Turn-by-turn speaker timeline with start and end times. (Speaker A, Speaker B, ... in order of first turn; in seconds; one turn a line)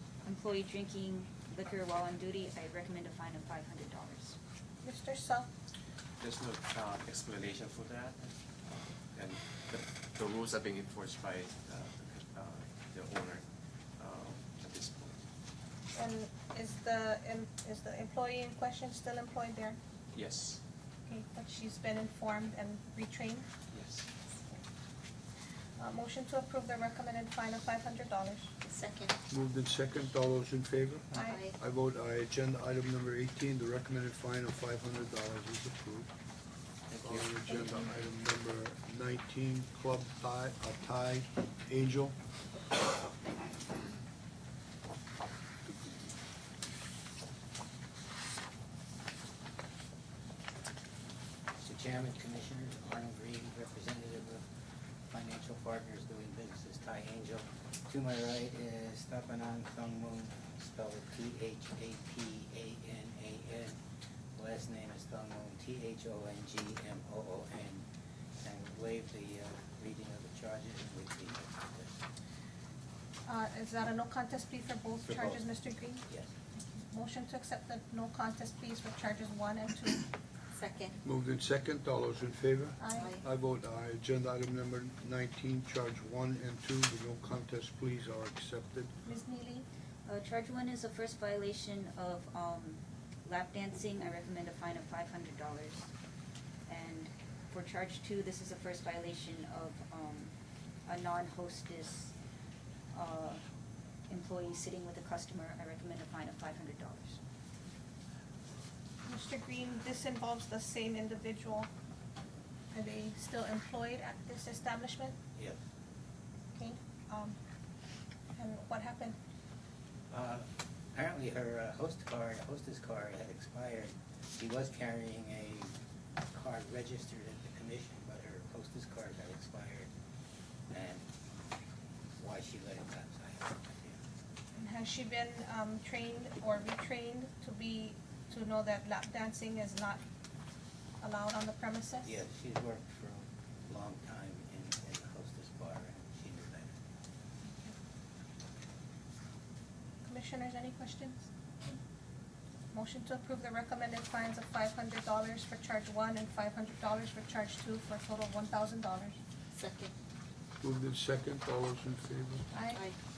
Speaker A: 0.2-4.4
Speaker B: 4.8-5.5
Speaker C: 6.2-13.4
Speaker C: 14.0-15.2
Speaker B: 15.9-19.8
Speaker C: 20.1-20.6
Speaker B: 21.1-23.5
Speaker C: 23.7-24.1
Speaker B: 25.8-28.5
Speaker D: 28.6-29.2
Speaker E: 29.3-36.1
Speaker B: 31.1-31.4
Speaker D: 31.2-31.6
Speaker C: 36.9-37.2
Speaker E: 37.0-42.2
Speaker B: 37.5-37.8
Speaker F: 51.6-54.5
Speaker F: 55.1-63.8
Speaker F: 64.4-67.8
Speaker F: 68.4-72.0
Speaker B: 73.3-76.0
Speaker F: 75.1-75.4
Speaker F: 76.0-76.3
Speaker B: 76.8-80.0
Speaker D: 80.5-81.0
Speaker E: 81.0-88.9
Speaker B: 82.8-83.2
Speaker D: 82.9-83.2
Speaker B: 89.1-89.7
Speaker A: 90.1-95.9
Speaker A: 96.7-100.3
Speaker A: 100.9-102.1
Speaker A: 102.9-103.4
Speaker A: 104.1-107.2
Speaker B: 109.1-111.7
Speaker B: 112.7-115.2
Speaker B: 116.5-117.3
Speaker B: 118.4-119.2
Speaker F: 120.1-125.7
Speaker F: 126.3-129.9
Speaker F: 130.7-131.0
Speaker F: 132.2-134.0
Speaker B: 134.6-140.0
Speaker B: 141.0-142.2
Speaker F: 142.0-146.7
Speaker B: 150.1-151.3
Speaker B: 152.7-159.2
Speaker D: 159.6-159.9
Speaker E: 160.6-162.5
Speaker B: 162.5-162.8